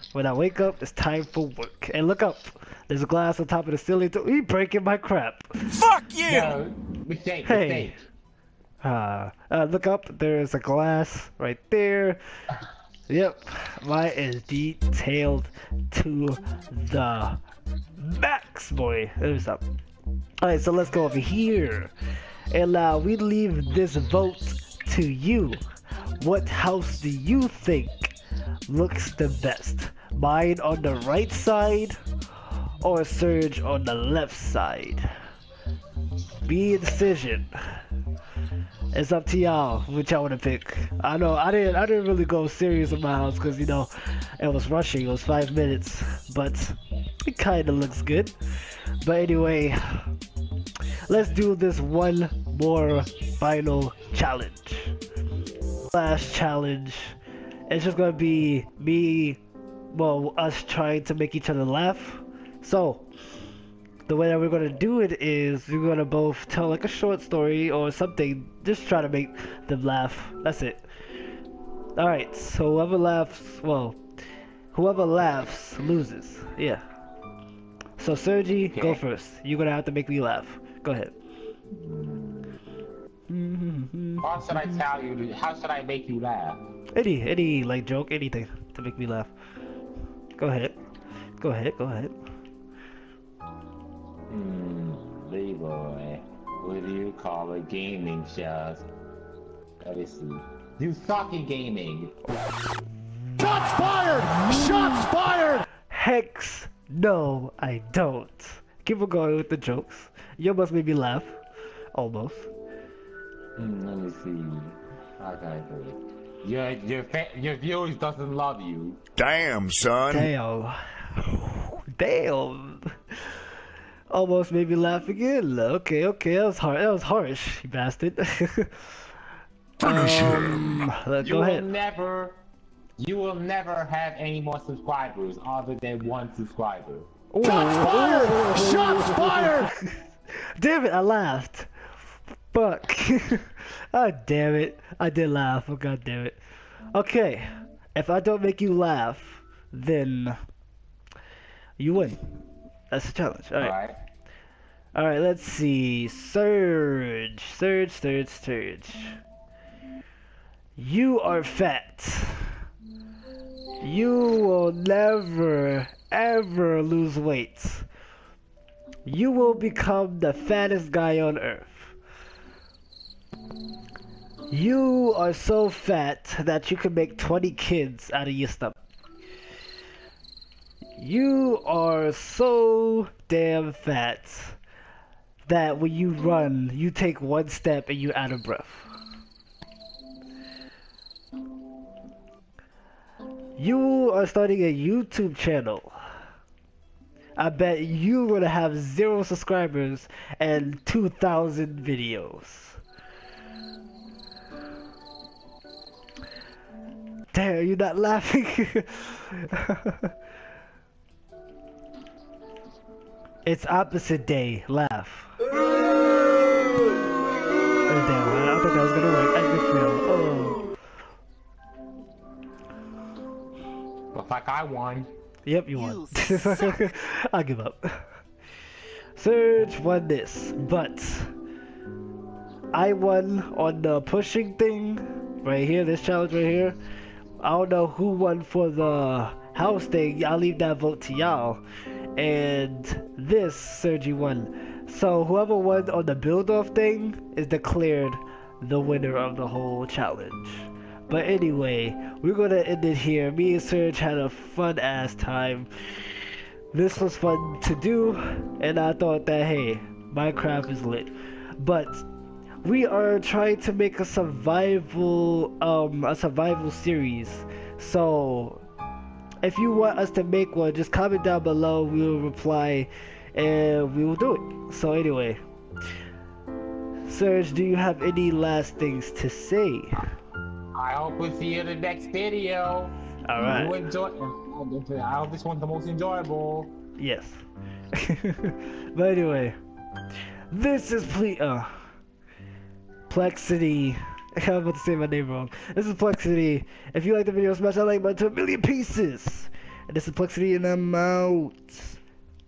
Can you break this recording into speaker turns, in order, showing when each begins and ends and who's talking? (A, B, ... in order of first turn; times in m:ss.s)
0:00.1-0:06.0 A
0:05.8-0:06.6 B
0:06.2-0:08.0 C
0:07.4-0:08.0 A
0:08.8-0:12.2 A
0:13.1-0:17.4 A
0:18.0-0:19.6 A
0:20.4-0:21.9 A
0:22.5-0:25.6 A
0:26.2-0:28.2 A
0:28.7-0:32.0 A
0:32.8-0:35.1 A
0:36.4-0:37.8 A
0:38.9-0:48.4 A
0:49.0-0:50.1 A
0:51.1-0:55.0 A
0:55.9-0:57.2 A
0:57.7-1:03.0 A
1:04.1-1:10.9 A
1:12.0-1:14.0 A
1:14.7-1:16.8 A
1:18.0-1:21.1 A
1:18.7-1:19.0 C
1:21.7-1:22.6 C
1:23.3-1:24.9 A
1:24.2-1:26.6 C
1:27.0-1:29.3 A
1:30.4-1:30.8 A
1:31.4-1:32.2 A
1:34.3-1:38.9 C
1:39.8-1:42.1 C
1:43.8-1:45.5 C
1:45.9-1:51.4 A
1:51.9-1:52.5 A
1:53.6-1:59.0 C
1:59.2-2:00.3 B
2:00.1-2:03.5 A
2:04.1-2:09.0 A
2:09.8-2:11.7 A
2:09.8-2:10.8 B
2:11.2-2:12.4 C
2:13.0-2:19.7 C
2:17.3-2:21.7 A
2:22.5-2:26.4 A
2:26.9-2:30.4 A
2:31.8-2:32.2 A
2:32.9-2:33.8 A
2:33.6-2:34.0 C
2:35.0-2:39.2 A
2:40.8-2:42.6 A
2:43.8-2:47.9 A
2:49.1-2:52.0 A
2:54.5-2:58.8 A
3:01.0-3:04.6 A
3:05.5-3:08.9 A
3:13.6-3:16.0 A
3:17.4-3:22.8 A
3:27.3-3:30.1 A
3:33.4-3:35.3 A
3:37.9-3:40.7 A
3:44.1-3:45.1 C
3:45.5-3:48.1 A
3:46.1-3:46.6 B
3:49.2-3:51.3 A
3:52.7-3:56.8 A
3:57.4-4:01.6 A
4:02.2-4:22.1 A
4:22.6-4:28.6 A
4:29.4-4:35.4 A
4:37.1-4:40.1 A
4:40.8-4:46.7 C
4:43.3-4:43.8 A
4:47.0-4:47.4 A
4:48.0-4:49.6 A
4:50.5-4:51.9 A
4:53.1-5:02.0 A